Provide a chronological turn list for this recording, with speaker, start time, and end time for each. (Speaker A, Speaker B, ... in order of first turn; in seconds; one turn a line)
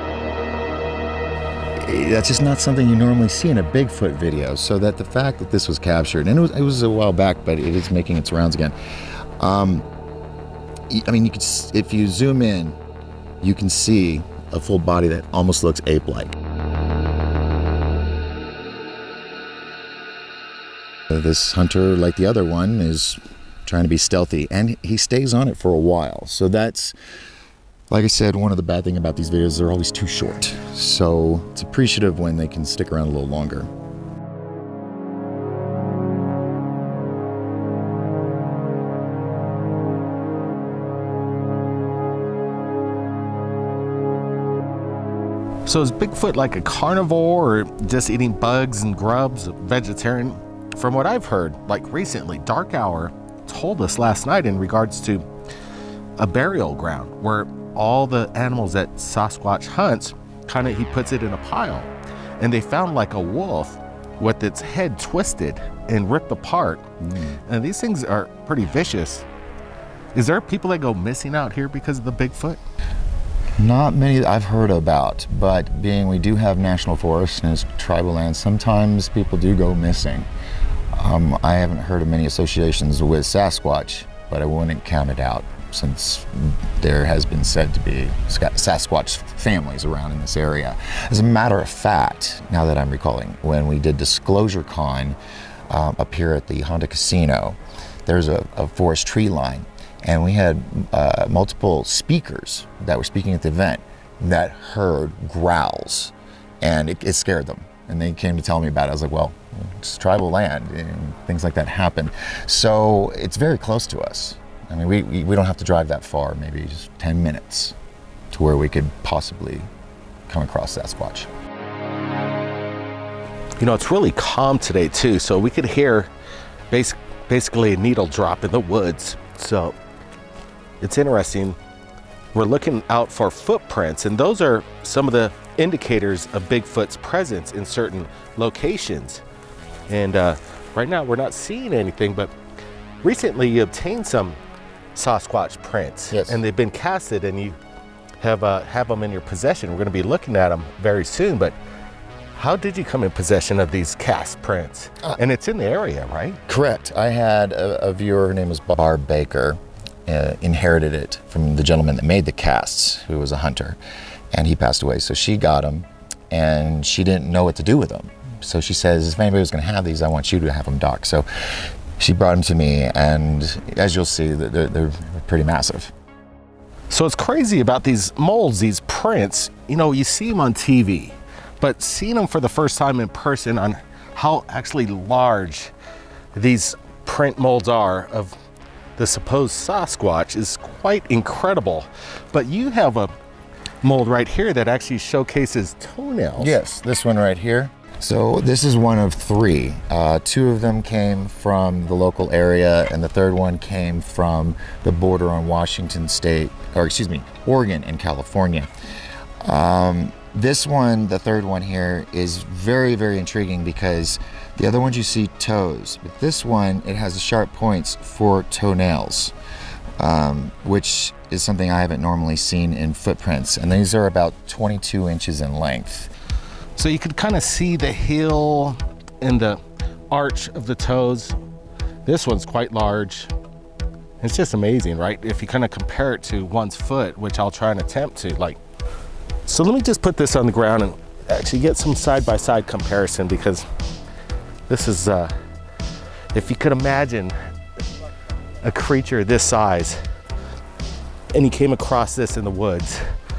Speaker A: 1.8-8.7
Speaker A: 9.4-9.8
Speaker A: 10.9-12.8
Speaker A: 13.4-16.3
Speaker A: 21.1-26.9
Speaker A: 27.9-33.7
Speaker B: 45.6-55.2
Speaker B: 56.2-66.8
Speaker A: 67.0-67.4
Speaker B: 67.5-69.2
Speaker B: 70.1-72.6
Speaker A: 73.6-80.3
Speaker A: 81.0-95.2
Speaker A: 95.7-117.7
Speaker A: 118.3-119.7
Speaker A: 120.3-121.3
Speaker B: 123.6-126.1
Speaker B: 126.7-129.8
Speaker B: 130.8-131.6
Speaker B: 132.3-139.2
Speaker B: 139.9-142.3
Speaker B: 143.0-144.4
Speaker B: 144.9-147.6
Speaker A: 146.1-146.4
Speaker B: 148.2-151.5
Speaker B: 152.3-156.4
Speaker A: 156.5-163.8
Speaker A: 164.3-171.2
Speaker A: 172.0-175.9
Speaker B: 176.9-185.7
Speaker B: 186.3-188.3
Speaker B: 189.0-193.1
Speaker B: 193.8-196.6
Speaker A: 196.4-208.7
Speaker A: 209.4-219.3
Speaker A: 220.0-226.1
Speaker B: 226.8-231.3
Speaker B: 232.1-233.3
Speaker B: 234.2-238.6
Speaker B: 239.4-243.6
Speaker B: 244.7-245.3
Speaker B: 246.3-247.3
Speaker B: 248.6-250.0
Speaker B: 251.3-253.0